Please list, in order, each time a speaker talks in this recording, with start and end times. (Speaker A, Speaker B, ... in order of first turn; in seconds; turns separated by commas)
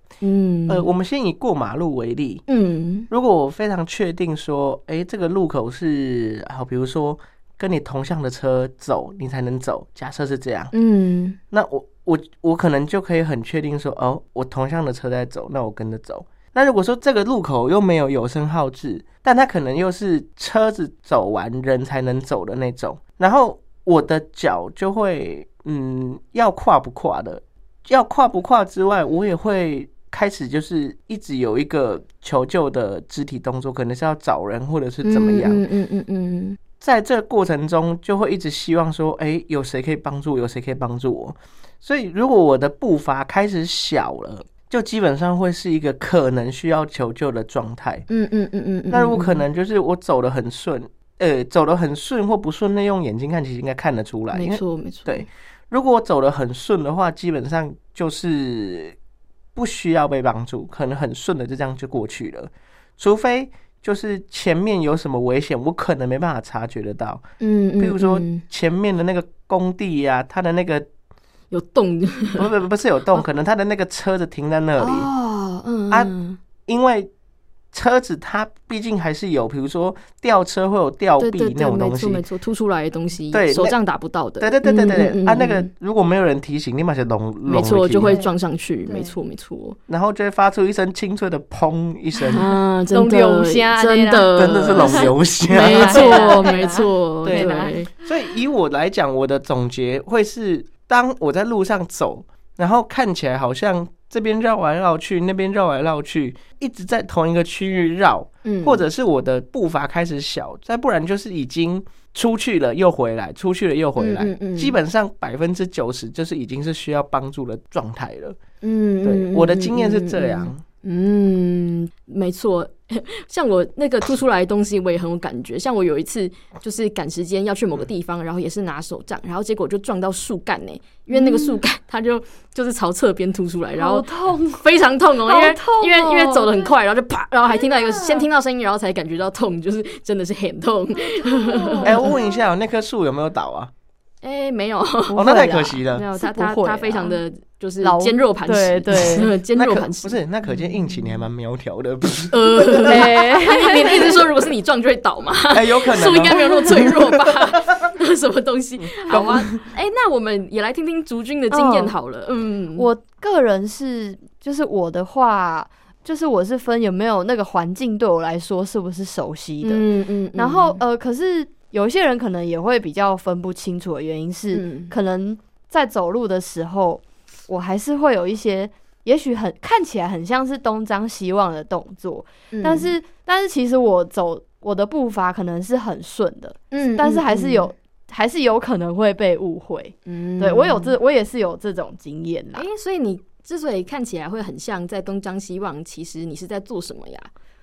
Speaker A: 0.2-0.9, Speaker B: 0.7-2.4, Speaker A: 2.5-3.1, Speaker B: 3.1-10.7, Speaker A: 10.7-11.4, Speaker B: 11.5-35.6, Speaker A: 35.0-36.6, Speaker B: 36.8-48.0, Speaker A: 48.1-49.4, Speaker B: 48.9-59.0, Speaker A: 54.3-55.2, Speaker B: 59.5-67.2, Speaker A: 67.4-68.4, Speaker B: 67.8-70.8, Speaker A: 71.5-72.5, Speaker B: 72.3-75.1, Speaker A: 74.8-76.4, Speaker B: 76.7-77.1, Speaker B: 77.7-82.2, Speaker A: 81.2-85.7, Speaker B: 83.3-83.8, Speaker B: 84.4-88.2, Speaker A: 87.5-89.8, Speaker C: 88.0-88.3, Speaker C: 88.8-89.2, Speaker B: 89.9-92.5, Speaker C: 92.2-98.1, Speaker A: 92.3-97.9, Speaker B: 94.3-96.5, Speaker B: 97.2-118.4, Speaker A: 108.4-108.8, Speaker A: 114.0-114.8, Speaker A: 118.6-142.0, Speaker B: 119.0-120.6, Speaker C: 131.1-131.6, Speaker C: 133.8-134.7, Speaker C: 135.2-136.8, Speaker C: 137.5-138.3, Speaker C: 141.1-142.4, Speaker B: 141.8-143.7, Speaker A: 144.2-145.2, Speaker C: 145.1-147.2, Speaker B: 145.1-146.0, Speaker A: 145.9-150.2, Speaker C: 147.8-149.3, Speaker B: 149.5-153.0, Speaker A: 152.3-162.9, Speaker C: 152.9-154.3, Speaker B: 155.5-157.4, Speaker B: 158.9-159.6, Speaker C: 161.5-161.9, Speaker C: 162.8-192.7, Speaker A: 169.6-170.8, Speaker A: 174.5-174.9, Speaker A: 182.5-182.9, Speaker A: 186.7-187.7, Speaker A: 190.1-190.9, Speaker A: 192.5-197.3